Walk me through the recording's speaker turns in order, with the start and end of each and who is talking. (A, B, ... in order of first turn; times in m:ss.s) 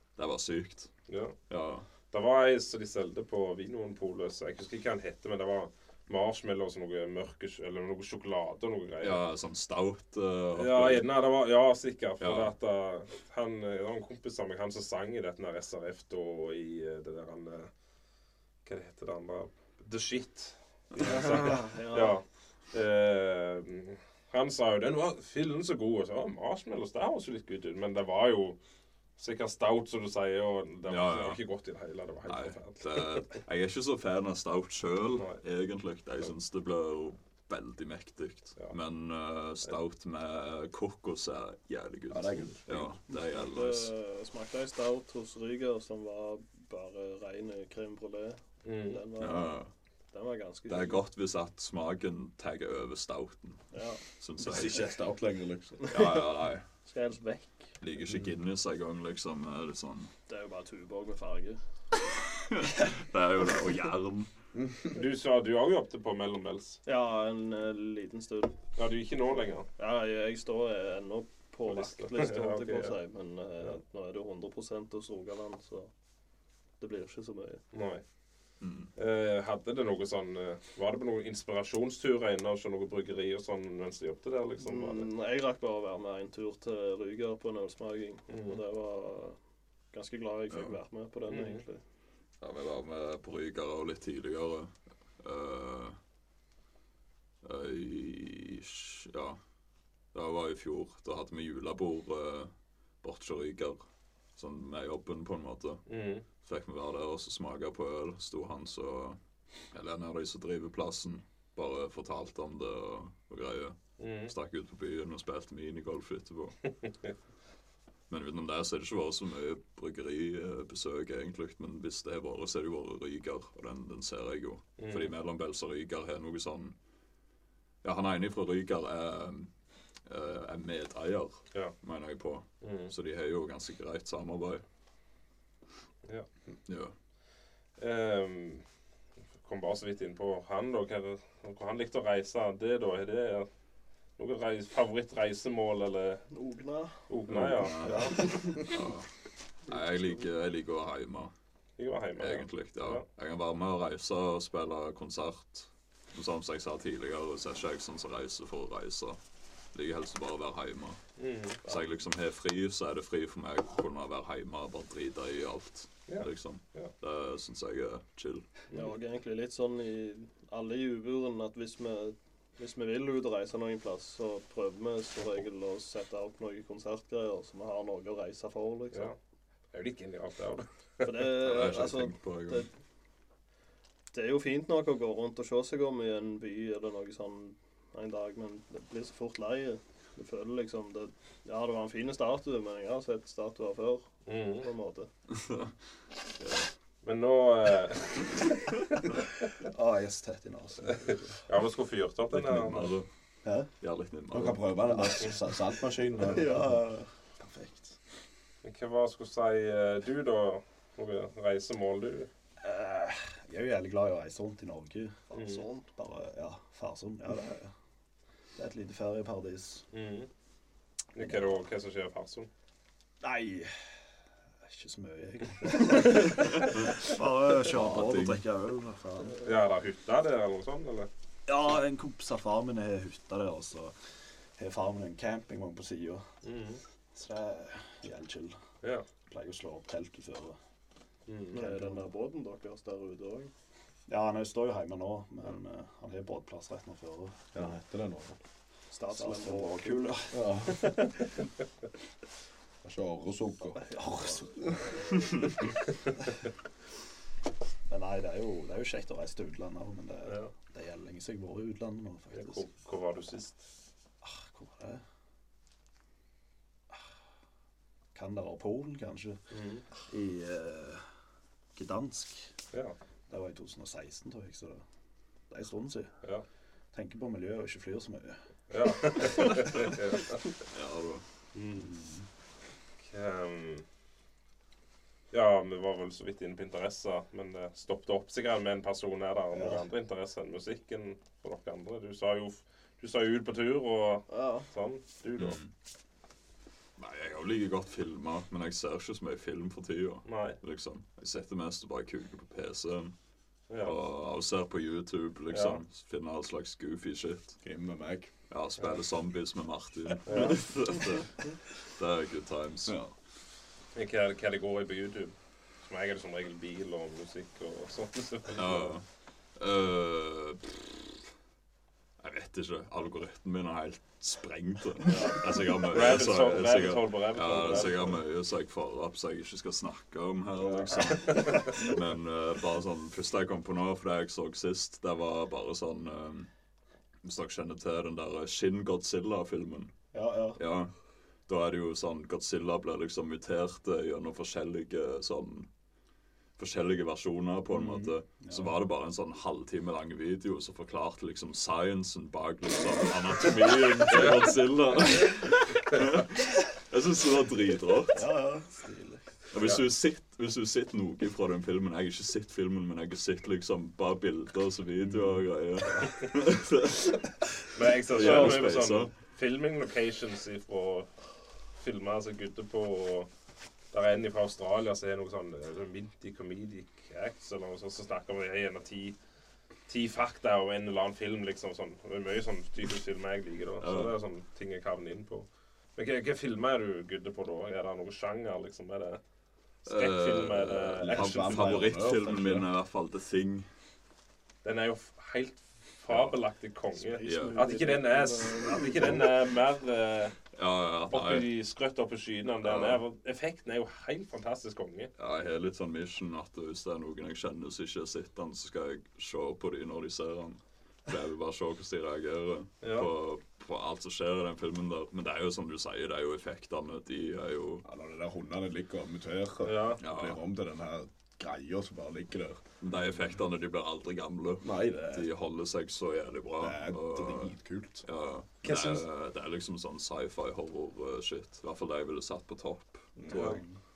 0:00.2-0:00.9 A
0:01.1-0:01.4 B
0:01.5-0:01.9 A
0:02.1-0:09.2 B
0:09.0-0:11.1 A
0:10.5-0:17.7 B
0:12.2-0:12.5 A
0:18.6-0:28.6 B
0:21.0-0:22.2 C
0:29.2-0:33.2 B
0:30.9-0:31.4 A
0:32.3-0:43.9 A
0:35.1-0:35.4 B
0:42.1-0:43.0 D
0:43.1-0:49.5 C
0:48.6-0:49.0 B
0:49.2-0:49.7 A
0:50.1-0:51.0 C
0:50.7-0:53.6 A
0:53.7-0:54.0 C
0:54.2-0:54.9 A
0:54.4-0:55.9 D
0:55.8-0:56.2 C
0:55.9-0:56.6 A
0:56.9-0:57.7 C
0:57.8-1:00.1 A
1:00.3-1:01.6 C
1:02.4-1:04.3 A
1:04.5-1:05.0 D
1:04.9-1:06.8 B
1:06.9-1:08.6 C
1:08.8-1:09.7 B
1:09.8-1:15.9 C
1:11.7-1:13.0 B
1:16.8-1:17.6 C
1:17.7-1:18.0 B
1:18.6-1:18.9 A
1:19.0-1:25.1 B
1:24.6-1:29.4 C
1:28.3-1:28.6 B
1:29.9-1:31.8 C
1:31.3-1:31.6 B
1:32.4-1:36.0 A
1:37.4-1:39.4 A
1:40.1-1:43.8 A
1:44.4-1:45.8 A
1:45.9-1:46.3 B
1:46.4-1:49.2 A
1:49.7-1:56.6 A
1:54.0-1:54.3 B
1:56.8-1:57.1 B
1:58.1-2:06.8 A
2:04.8-2:05.1 B
2:07.8-2:09.5 A
2:10.1-2:14.6 A
2:12.6-2:12.9 B
2:16.7-2:17.0 A
2:17.8-2:18.6 B
2:19.4-2:23.5 B
2:24.2-2:26.2 B
2:26.3-2:27.1 C
2:27.1-2:28.7 B
2:27.3-2:29.1 A
2:28.1-2:28.6 C
2:29.6-2:31.3 A
2:31.8-2:33.0 B
2:32.2-2:39.2 A
2:39.7-2:41.0 A
2:41.2-2:41.7 B
2:41.6-2:48.5 A
2:46.1-2:46.9 B
2:48.7-2:59.1 C
2:59.7-3:01.3 B
3:01.0-3:02.7 C
3:01.3-3:02.7 A
3:04.1-3:15.1 C
3:14.2-3:14.7 B
3:15.3-3:15.7 A
3:16.4-3:16.6 A
3:17.0-3:19.2 B
3:19.6-3:21.4 E
3:20.9-3:22.9 B
3:22.3-3:23.1 A
3:23.4-3:23.7 E
3:23.8-3:24.6 A
3:24.3-3:26.7 D
3:24.9-3:25.4 E
3:26.2-3:28.0 E
3:26.2-3:26.7 C
3:28.6-3:32.3 B
3:32.6-3:37.7 E
3:35.3-3:35.9 C
3:35.3-3:35.6 B
3:38.6-3:39.8 E
3:39.9-3:40.3 B
3:41.1-3:42.5 B
3:41.2-3:41.6 E
3:43.2-3:43.8 E
3:44.6-3:49.4 E
3:47.6-3:48.4 A
3:49.4-3:51.1 B
3:51.5-3:54.0 E
3:54.6-3:56.3 E
3:56.4-3:56.8 B
3:57.1-3:58.6 E
3:59.3-4:00.6 E
4:01.3-4:01.6 B
4:01.5-4:03.5 C
4:01.5-4:02.0 E
4:04.1-4:07.7 E
4:07.5-4:08.4 D
4:08.9-4:10.2 C
4:09.1-4:10.9 E
4:10.3-4:11.0 D
4:12.8-4:14.0 D
4:13.9-4:15.4 E
4:17.9-4:22.6 E
4:20.2-4:20.5 B
4:22.3-4:23.6 B
4:24.2-4:25.0 E
4:28.1-4:29.4 E
4:29.5-4:29.9 B
4:30.0-4:31.1 E
4:31.8-4:32.6 E
4:33.3-4:34.8 E
4:35.5-4:36.2 E
4:36.9-4:38.4 E
4:38.7-4:40.5 B
4:39.2-4:39.6 E
4:40.7-4:41.2 A
4:41.5-4:42.0 B
4:41.8-4:42.3 E
4:43.0-4:43.8 B
4:45.3-4:55.6 B
4:54.3-4:54.7 C
4:55.4-4:55.7 A
4:57.0-5:03.1 A
5:00.2-5:00.6 B
5:03.7-5:04.0 B
5:03.8-5:07.6 A
5:05.5-5:05.8 B
5:07.6-5:08.3 D
5:08.5-5:13.0 A
5:10.2-5:10.6 B
5:12.9-5:13.1 D
5:13.9-5:19.0 B
5:18.6-5:21.2 A
5:22.2-5:36.5 A
5:25.1-5:28.2 B
5:31.3-5:31.8 B
5:37.2-5:39.9 A
5:40.1-5:40.6 E
5:40.6-5:40.9 A
5:41.5-5:45.7 A
5:46.6-5:58.3 A
5:47.7-5:48.7 E
5:58.1-5:59.3 E
5:59.5-6:07.5 A
5:59.6-5:59.8 B
6:05.1-6:05.4 E
6:07.7-6:11.1 B
6:08.1-6:09.2 A
6:11.8-6:13.3 B
6:13.9-6:19.2 B
6:19.9-6:29.2 B
6:23.8-6:24.2 A
6:29.8-6:31.8 B
6:29.9-6:33.7 A
6:31.0-6:32.7 D
6:34.6-6:40.4 B
6:36.1-6:36.4 A
6:37.1-6:39.3 C
6:37.2-6:37.7 A
6:40.5-6:41.5 A
6:41.1-6:45.1 B
6:42.6-6:43.0 A
6:45.2-6:57.9 A
6:52.8-6:53.1 B
6:57.8-7:02.6 D
6:59.6-7:00.0 B
7:00.0-7:00.4 A
7:02.8-7:13.6 A
7:04.6-7:05.3 D
7:06.6-7:08.0 D
7:08.6-7:09.0 B
7:13.2-7:13.6 D
7:13.3-7:13.6 B